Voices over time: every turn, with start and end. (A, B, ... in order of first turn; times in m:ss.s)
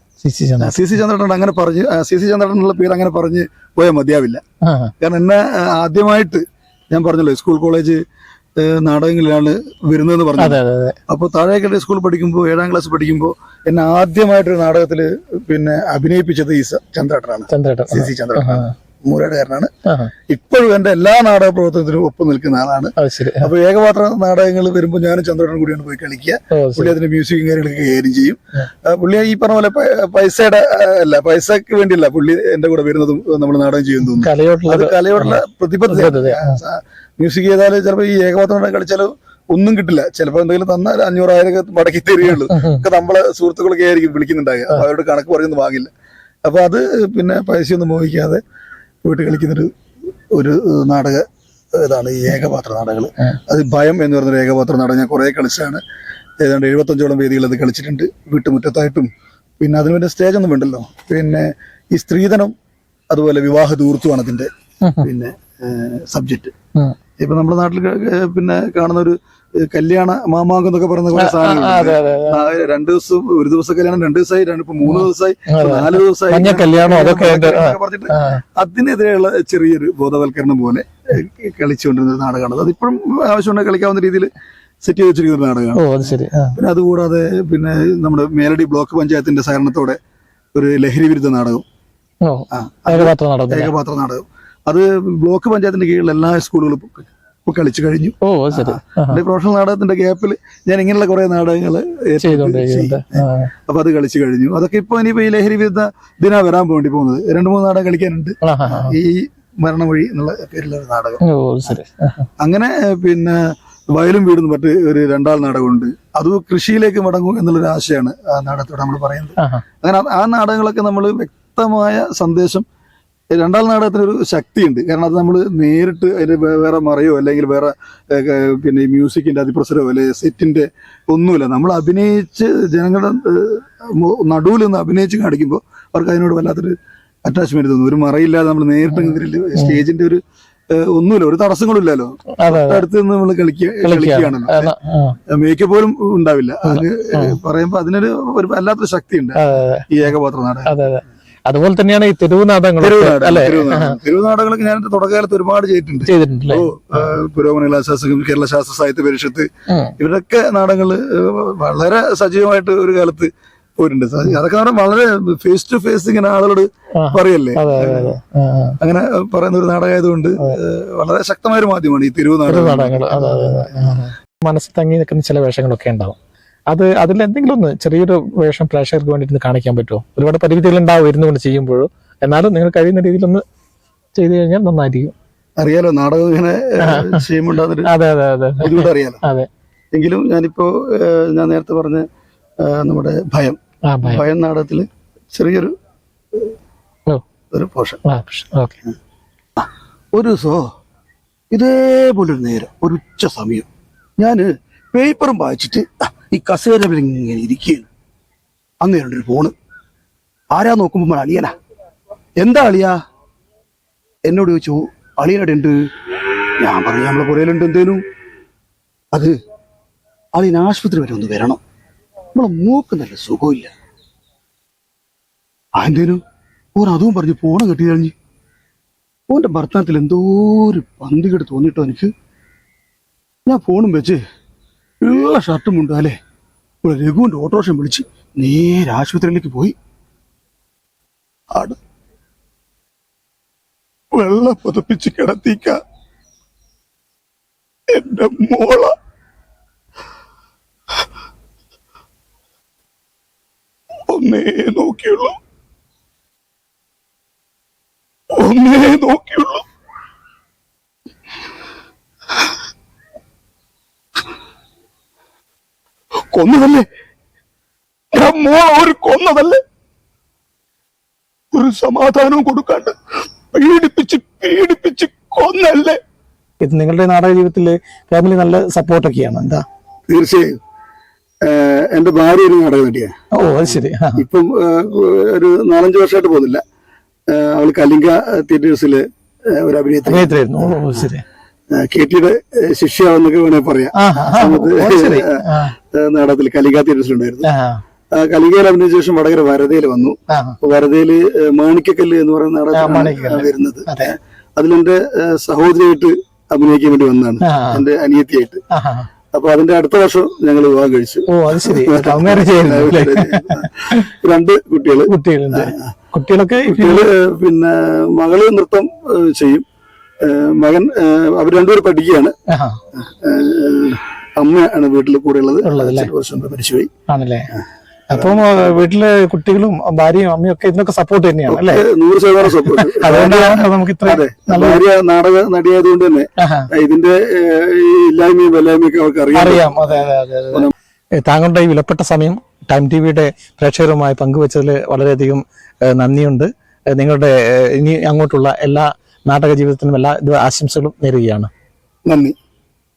0:00.2-0:00.8 A
0:00.6-0:04.4 B
0:04.6-0:04.9 A
0:05.0-0:08.0 B
0:08.6-0:19.7 B
0:10.4-0:11.0 A
0:17.5-0:18.7 A
0:19.8-0:20.1 A
0:20.3-0:45.9 B
0:23.0-0:23.5 A
0:26.5-0:26.9 A
0:34.0-0:36.6 A
0:42.4-0:42.8 A
0:46.4-0:48.4 B
0:49.0-0:49.7 B
0:50.3-0:55.8 B
0:56.4-0:59.1 B
0:59.6-1:02.5 B
1:03.1-1:04.5 B
1:04.8-1:05.1 A
1:05.0-1:06.5 B
1:07.2-1:24.3 B
1:11.1-1:12.4 A
1:14.8-1:18.4 A
1:24.8-1:30.0 B
1:25.7-1:26.6 A
1:30.5-1:31.6 B
1:32.2-1:33.7 A
1:32.5-1:51.2 B
1:38.2-1:39.2 A
1:42.2-1:43.5 A
1:48.4-1:49.0 A
1:51.2-1:52.3 A
1:52.4-2:02.6 B
1:59.4-1:59.6 A
2:03.3-2:24.7 B
2:18.9-2:19.8 A
2:22.4-2:22.8 A
2:23.8-2:25.2 A
2:25.3-2:30.7 B
2:26.6-2:27.4 A
2:29.4-2:29.9 A
2:30.6-2:34.0 A
2:32.8-2:48.2 B
2:36.0-2:37.1 A
2:39.7-2:40.0 A
2:47.0-2:48.8 A
2:48.8-2:54.0 B
2:52.5-2:56.2 A
2:56.7-3:03.4 A
3:04.2-3:05.1 A
3:05.6-3:07.9 B
3:06.8-3:07.2 A
3:07.8-3:09.5 A
3:08.6-3:09.2 B
3:09.9-3:12.0 B
3:12.6-3:15.7 B
3:13.9-3:14.2 A
3:17.5-3:18.0 B
3:18.0-3:18.8 A
3:19.6-3:20.7 B
3:21.5-3:23.7 B
3:24.2-3:27.9 B
3:28.8-3:29.5 B
3:30.5-3:31.5 B
3:32.4-3:33.0 B
3:34.3-3:35.8 B
3:36.6-3:38.0 B
3:40.3-3:41.6 B
3:42.3-3:43.7 B
3:45.8-3:46.2 B
3:46.8-3:48.1 B
3:49.3-3:52.1 B
3:53.5-3:54.2 B
3:55.0-3:56.2 B
3:56.8-3:59.7 B
4:01.5-4:01.8 B
4:04.1-4:05.8 B
4:07.9-4:08.9 B
4:14.1-4:15.4 B
4:18.3-4:19.6 B
4:26.3-4:26.8 B
4:28.1-4:29.6 B
4:31.5-4:33.0 B
4:33.5-4:36.0 B
4:36.6-4:39.6 A
4:40.1-4:40.5 B
4:41.4-4:43.2 B
4:43.3-4:44.2 A
4:44.2-4:46.6 B
4:47.3-4:51.0 B
4:50.1-4:51.2 A
4:51.7-4:57.5 B
4:54.0-4:55.7 A
4:57.4-4:57.8 A
4:58.1-5:08.6 B
5:00.3-5:00.6 A
5:02.7-5:04.1 A
5:07.4-5:07.8 A
5:08.7-5:09.1 A
5:09.3-5:15.9 B
5:11.3-5:14.1 A
5:15.1-5:17.1 A
5:16.6-5:19.6 B
5:20.2-5:22.3 B
5:22.5-5:22.8 A
5:22.9-5:26.9 B
5:25.6-5:26.1 A
5:27.1-5:27.5 A
5:27.5-5:28.3 B
5:28.1-5:31.8 A
5:31.5-5:39.7 B
5:32.4-5:34.8 A
5:36.4-5:36.7 A
5:39.3-5:51.5 A
5:52.1-5:52.4 B